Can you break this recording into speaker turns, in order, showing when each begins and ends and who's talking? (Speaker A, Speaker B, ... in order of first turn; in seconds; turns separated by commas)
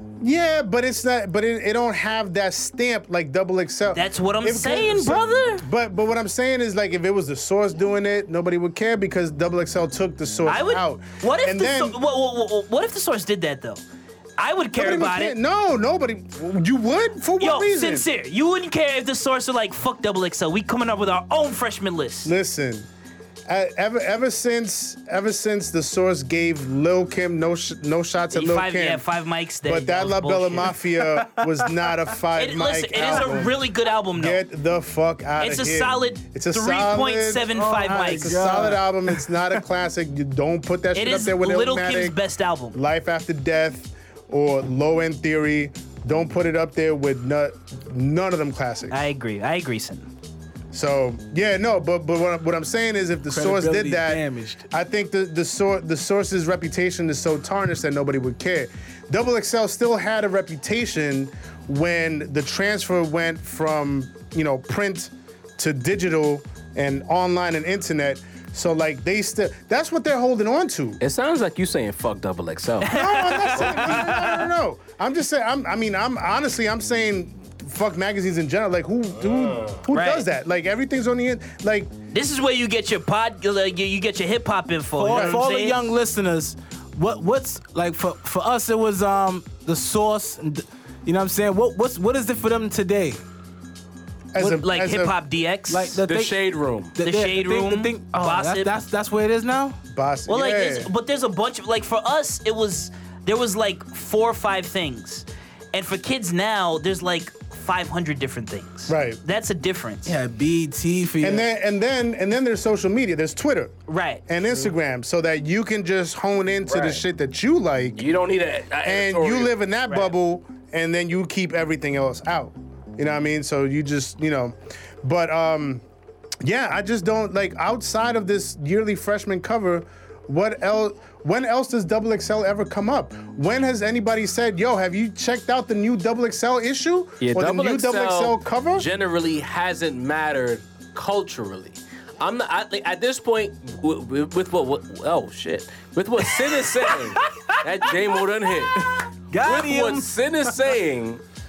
Speaker A: 0.2-12.0, Speaker B: 3.9-5.7, Speaker B: 10.5-13.8, Speaker B: 14.4-15.3, Speaker A: 14.7-18.1, Speaker B: 17.4-22.3, Speaker A: 22.2-22.9, Speaker A: 23.5-29.1, Speaker B: 28.3-30.8, Speaker A: 29.6-42.2, Speaker C: 31.0-31.7, Speaker B: 32.3-34.4, Speaker B: 35.4-38.5, Speaker C: 37.5-39.6, Speaker B: 40.9-42.8, Speaker A: 42.7-49.0, Speaker B: 48.9-50.1, Speaker A: 50.7-71.0, Speaker C: 53.3-54.6, Speaker D: 71.0-72.9, Speaker B: 72.8-74.5, Speaker A: 72.9-81.9, Speaker D: 73.6-74.0, Speaker D: 79.2-79.8, Speaker B: 79.9-80.3, Speaker B: 82.1-85.9, Speaker C: 85.0-93.2, Speaker A: 85.1-85.5, Speaker A: 94.3-95.2, Speaker B: 94.4-96.0, Speaker C: 95.7-96.4, Speaker D: 96.0-96.9, Speaker C: 96.9-99.8, Speaker B: 97.0-98.7, Speaker A: 99.9-100.9, Speaker B: 100.3-110.2, Speaker A: 108.9-109.2, Speaker C: 110.0-111.5, Speaker A: 111.2-118.0, Speaker B: 113.9-114.2, Speaker D: 116.7-117.0, Speaker D: 118.0-119.5, Speaker A: 118.8-125.8, Speaker A: 126.4-138.9, Speaker D: 137.2-148.8, Speaker C: 146.4-147.6, Speaker C: 148.7-150.6, Speaker D: 149.4-151.2